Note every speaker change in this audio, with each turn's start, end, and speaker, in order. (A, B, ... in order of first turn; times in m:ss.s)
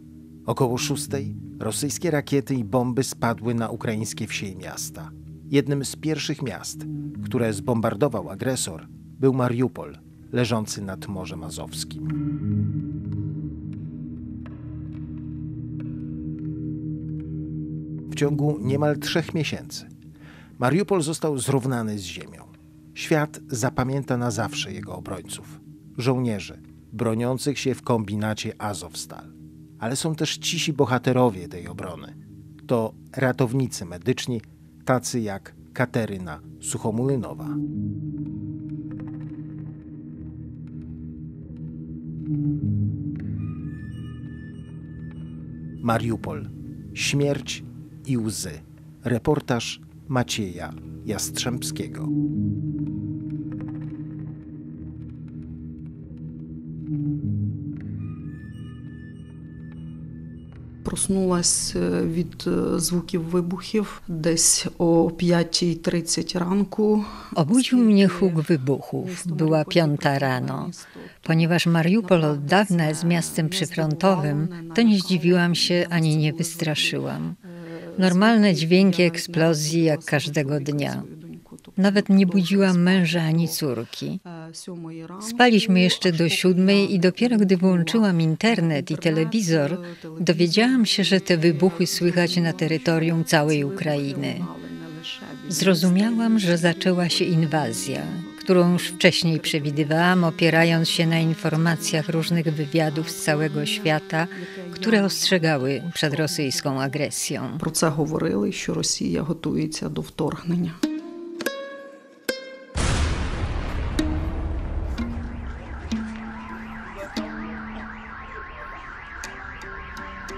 0:00.4-0:12.1 A
0:18.1-0:19.9 A
0:20.6-0:32.1 A
0:32.7-0:37.6 A
0:45.8-0:52.1 A
1:00.8-1:23.6 B
1:07.3-1:10.7 C
1:11.2-1:17.4 C
1:18.0-1:21.0 C
1:21.8-1:24.2 C
1:24.2-1:47.0 B
1:25.2-1:34.5 C
1:35.5-1:47.6 C
1:47.6-1:50.8 B